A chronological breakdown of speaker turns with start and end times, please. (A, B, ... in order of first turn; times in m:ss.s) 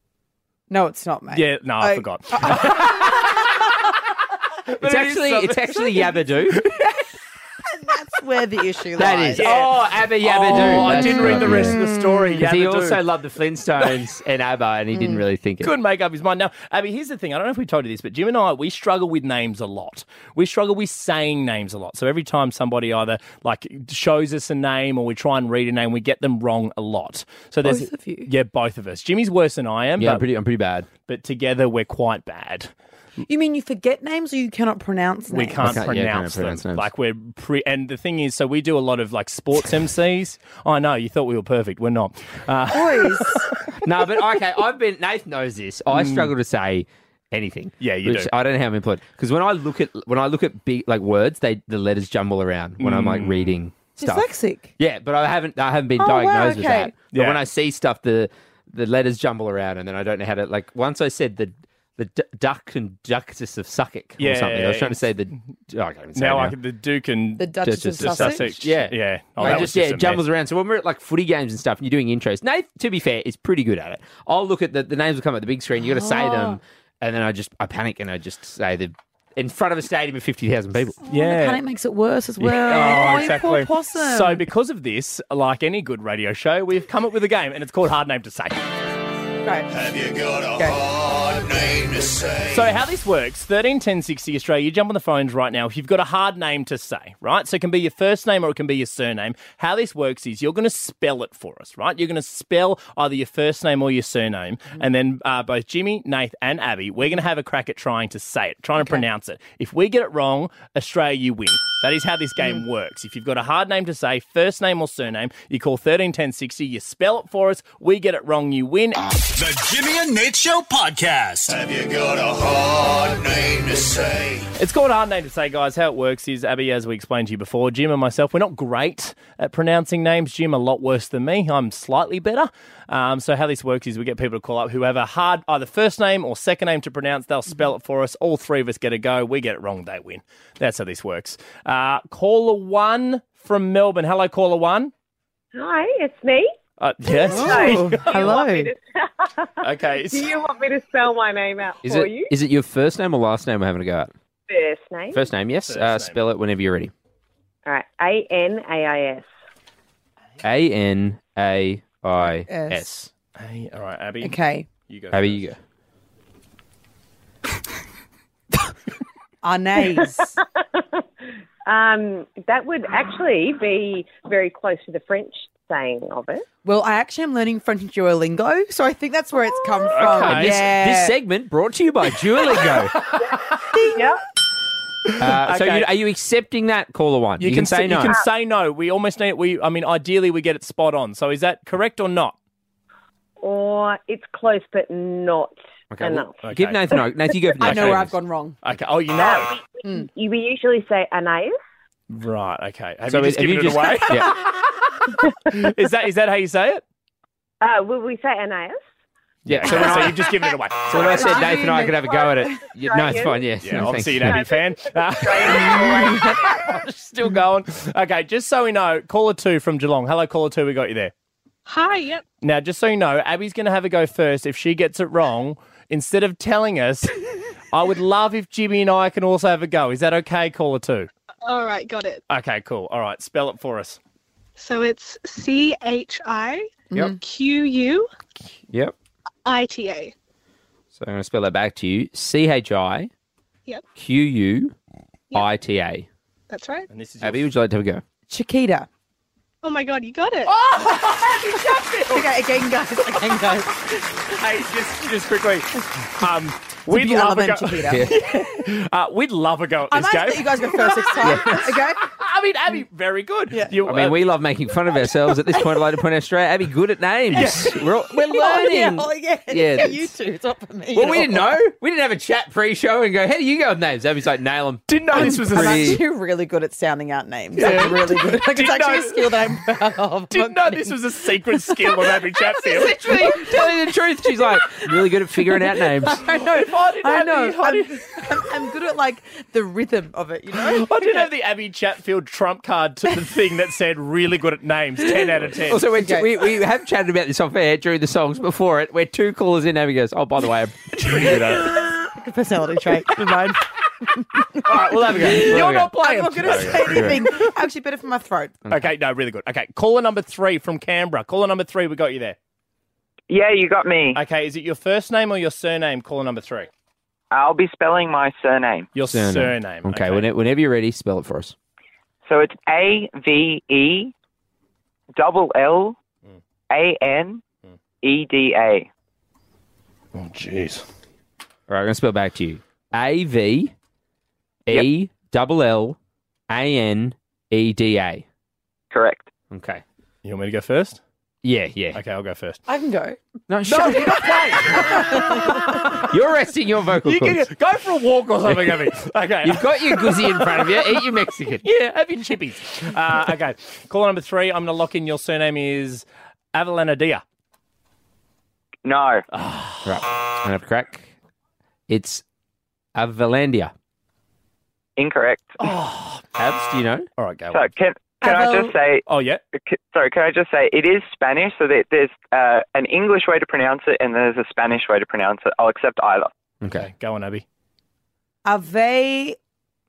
0:00.7-0:03.7 A
0:01.3-0:03.8 B
0:04.7-0:06.8 B
0:04.8-0:06.6 C
0:07.6-0:09.6 A
0:09.0-0:11.8 C
0:09.4-0:13.0 B
0:10.5-0:12.4 A
0:12.4-0:15.7 C
0:14.9-0:15.2 A
0:15.6-0:30.2 B
0:27.6-0:28.3 A
0:30.0-0:30.9 C
0:31.1-0:32.7 B
0:33.3-0:35.7 A
0:35.3-0:43.5 B
0:35.6-0:36.9 C
0:42.7-0:43.5 A
0:43.8-0:54.3 C
0:45.9-0:46.3 B
0:47.8-0:48.3 B
0:52.8-0:53.6 B
0:54.0-0:54.7 A
0:54.8-1:06.6 C
0:56.0-0:56.9 A
0:57.1-0:57.4 B
1:04.2-1:05.1 B
1:06.2-1:10.2 B
1:07.4-1:08.6 A
1:07.6-1:21.0 C
1:09.4-1:09.7 A
1:15.8-1:16.6 A
1:21.0-1:24.4 A
1:21.1-1:21.6 B
1:22.4-1:28.6 B
1:29.7-1:32.7 D
1:32.5-1:59.0 B
1:59.3-2:04.5 D
2:04.6-2:24.9 B
2:25.5-2:26.5 E
2:26.8-2:28.4 B
2:27.2-2:28.7 A
2:27.3-2:32.3 E
2:29.6-2:30.3 B
2:31.8-2:34.1 C
2:34.5-2:35.3 E
2:35.1-2:36.9 C
2:35.7-2:36.2 B
2:37.7-2:39.3 E
2:40.4-2:43.1 C
2:42.2-2:42.9 A
2:43.4-2:45.5 B
2:44.2-2:44.7 A
2:45.1-2:45.6 C
2:49.4-2:50.4 A
2:51.7-2:56.5 E
2:56.6-3:01.2 A
2:59.9-3:00.6 B
3:00.1-3:03.0 C
3:03.1-3:03.6 B
3:03.7-3:04.0 A
3:03.9-3:04.2 E
3:05.2-3:08.2 C
3:05.3-3:05.9 B
3:07.4-3:12.4 B
3:13.4-3:16.4 E
3:15.9-3:18.1 C
3:16.4-3:16.8 B
3:17.6-3:18.6 A
3:17.7-3:18.1 B
3:18.6-3:19.5 B
3:19.2-3:21.6 E
3:22.1-3:24.4 B
3:23.1-3:24.3 C
3:25.5-3:26.8 B
3:27.6-3:28.8 E
3:29.5-3:30.2 C
3:29.5-3:31.6 B
3:30.9-3:34.4 C
3:31.0-3:32.5 A
3:32.8-3:33.4 E
3:33.6-3:41.1 B
3:34.3-3:36.3 E
3:41.7-3:42.2 F
3:42.4-3:47.1 B
3:47.7-3:51.1 B
3:51.5-3:52.2 F
3:52.3-3:54.0 B
3:54.6-3:58.1 F
3:56.9-3:57.2 A
3:59.4-4:00.1 F
4:01.0-4:03.1 C
4:04.0-4:04.7 C
4:05.3-4:06.1 C
4:06.5-4:06.9 F
4:06.9-4:07.5 B
4:07.2-4:08.0 C
4:08.3-4:08.9 A
4:09.6-4:10.5 F
4:10.5-4:12.3 B
4:11.0-4:14.2 A
4:14.4-4:24.2 B
4:16.9-4:18.4 A
4:19.9-4:22.0 A
4:21.2-4:21.7 C
4:23.9-4:30.1 C
4:27.3-4:27.7 B
4:28.1-4:31.6 A
4:30.9-4:36.0 C
4:34.9-4:36.0 B
4:35.1-4:41.0 A
4:37.6-4:39.4 B
4:40.3-4:43.0 B
4:41.5-4:43.7 A
4:42.8-4:46.2 C
4:44.4-4:44.6 A
4:45.5-4:51.3 A
4:46.3-4:48.0 B
4:50.6-4:55.8 B
4:55.1-5:01.8 C
4:55.9-4:56.3 A
5:01.0-5:01.9 B
5:02.2-5:08.6 A
5:04.6-5:07.2 B
5:05.2-5:07.2 C
5:08.6-5:08.9 C
5:08.7-5:12.4 B
5:13.3-5:14.2 G
5:14.1-5:16.7 B
5:17.3-5:18.9 G
5:19.0-5:20.3 B
5:19.1-5:21.6 C
5:22.2-5:24.1 G
5:25.2-5:26.0 G
5:26.7-5:27.4 G
5:28.0-5:28.9 G
5:30.2-5:30.9 B
5:31.7-5:33.7 C
5:34.7-5:36.0 C
5:36.5-5:38.2 C
5:38.9-5:39.3 G
5:39.5-5:39.8 C
5:40.2-5:41.0 B
5:41.4-5:42.0 C
5:41.9-5:42.6 B
5:42.7-5:45.6 A
5:43.5-5:45.1 C
5:43.7-5:46.1 B
5:46.0-5:47.5 C
5:47.0-5:50.8 B
5:48.5-5:48.9 C
5:49.4-5:51.6 C
5:51.6-5:57.2 B
5:58.8-5:59.2 G
5:59.3-6:00.0 B
5:59.8-6:01.1 C
6:01.9-6:02.2 C
6:03.0-6:03.7 C
6:05.0-6:05.6 G
6:05.6-6:06.2 B
6:06.4-6:07.1 C
6:07.2-6:07.7 B
6:07.5-6:09.0 G
6:08.2-6:08.8 A
6:09.1-6:09.4 B
6:09.6-6:16.3 G
6:16.6-6:16.9 C
6:16.8-6:17.4 B
6:18.4-6:19.4 A